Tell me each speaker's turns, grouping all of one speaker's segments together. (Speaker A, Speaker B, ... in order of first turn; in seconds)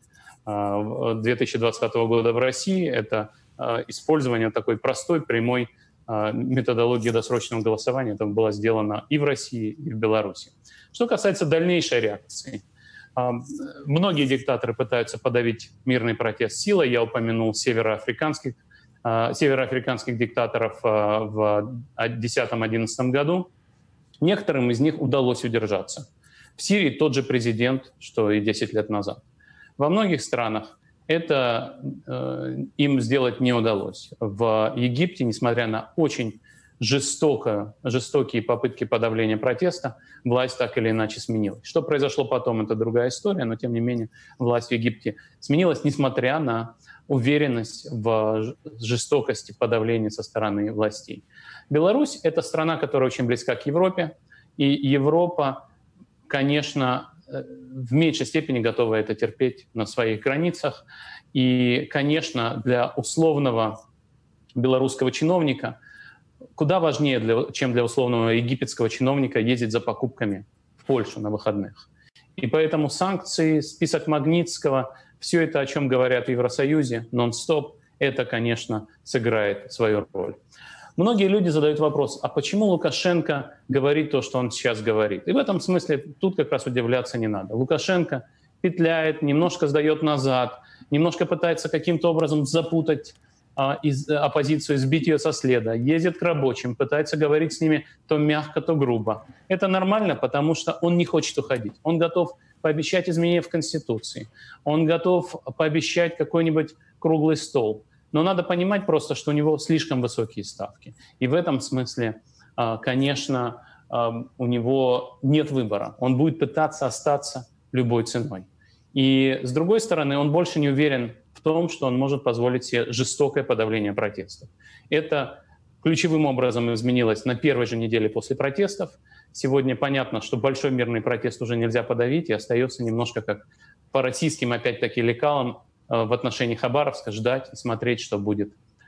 Speaker A: 0.5-12.6, 13.2-23.5, 24.2-26.1, 26.6-29.2, 29.8-55.6, 56.3-60.8, 61.3-63.8, 64.5-65.8, 66.6-71.8, 72.4-80.4, 81.0-138.6